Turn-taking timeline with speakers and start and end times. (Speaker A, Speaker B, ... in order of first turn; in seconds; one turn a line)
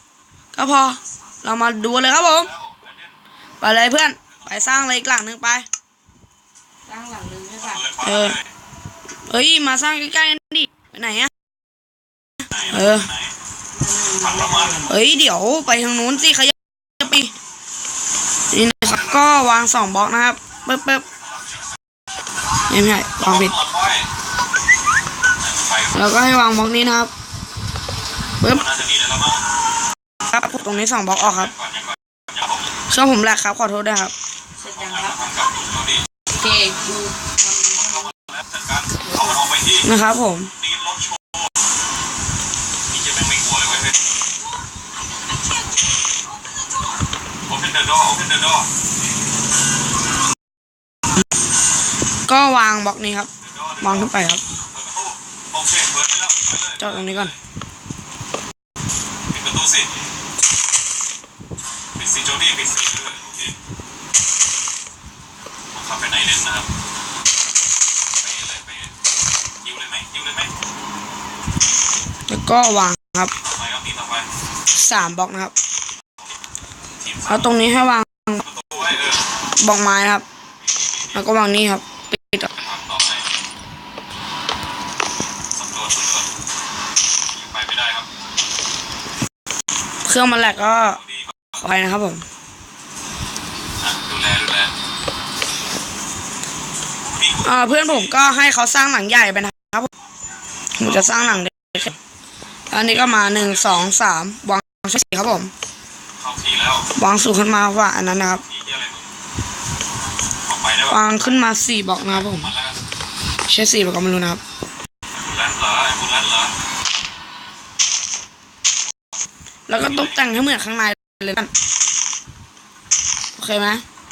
Speaker A: 0.5-2.5
Speaker B: 2.2-3.2
Speaker A: 3.6-5.7
Speaker B: 4.3-4.6
Speaker C: 6.9-7.9
Speaker B: 7.6-8.5
Speaker A: 8.0-8.4
Speaker A: 9.3-11.3
Speaker B: 12.5-13.3
Speaker A: 12.7-13.1
Speaker C: 13.7-14.9
Speaker B: 14.2-14.9
Speaker A: 14.9-17.3
Speaker A: 18.5-21.1
Speaker B: 21.1-21.7
Speaker A: 22.7-23.6
Speaker B: 23.2-24.1
Speaker B: 25.4-25.9
Speaker A: 25.9-27.1
Speaker B: 28.5-29.4
Speaker A: 30.3-31.5
Speaker B: 31.5-32.6
Speaker A: 32.9-34.1
Speaker C: 34.6-35.2
Speaker B: 34.8-36.0
Speaker C: 36.3-38.1
Speaker B: 38.0-39.9
Speaker C: 39.0-39.4
Speaker A: 39.8-40.5
Speaker B: 40.6-41.4
Speaker B: 42.9-44.0
Speaker B: 47.5-48.7
Speaker A: 52.3-53.3
Speaker B: 53.4-57.4
Speaker A: 53.8-54.4
Speaker A: 56.8-57.3
Speaker B: 59.3-59.9
Speaker B: 62.0-63.6
Speaker B: 65.7-66.7
Speaker B: 68.2-68.9
Speaker B: 69.6-70.5
Speaker A: 72.3-73.3
Speaker B: 73.4-74.3
Speaker A: 74.8-75.5
Speaker B: 77.0-77.5
Speaker A: 77.3-78.4
Speaker B: 78.5-79.2
Speaker A: 79.6-80.2
Speaker B: 80.6-81.2
Speaker A: 81.1-82.5
Speaker B: 82.6-83.3
Speaker B: 85.5-86.3
Speaker B: 87.3-88.1
Speaker A: 90.0-91.0
Speaker B: 90.7-91.6
Speaker A: 91.6-92.2
Speaker B: 93.8-94.7
Speaker B: 97.1-98.1
Speaker A: 97.4-99.9
Speaker A: 100.8-102.0
Speaker A: 102.7-105.5
Speaker B: 102.8-103.9
Speaker B: 106.2-106.9
Speaker A: 107.0-108.4
Speaker B: 108.4-109.1
Speaker B: 110.5-111.1
Speaker A: 110.9-112.5
Speaker B: 112.0-112.8
Speaker A: 113.5-114.4
Speaker B: 115.2-116.5
Speaker A: 119.7-121.5
Speaker B: 119.8-120.1
Speaker A: 123.4-123.8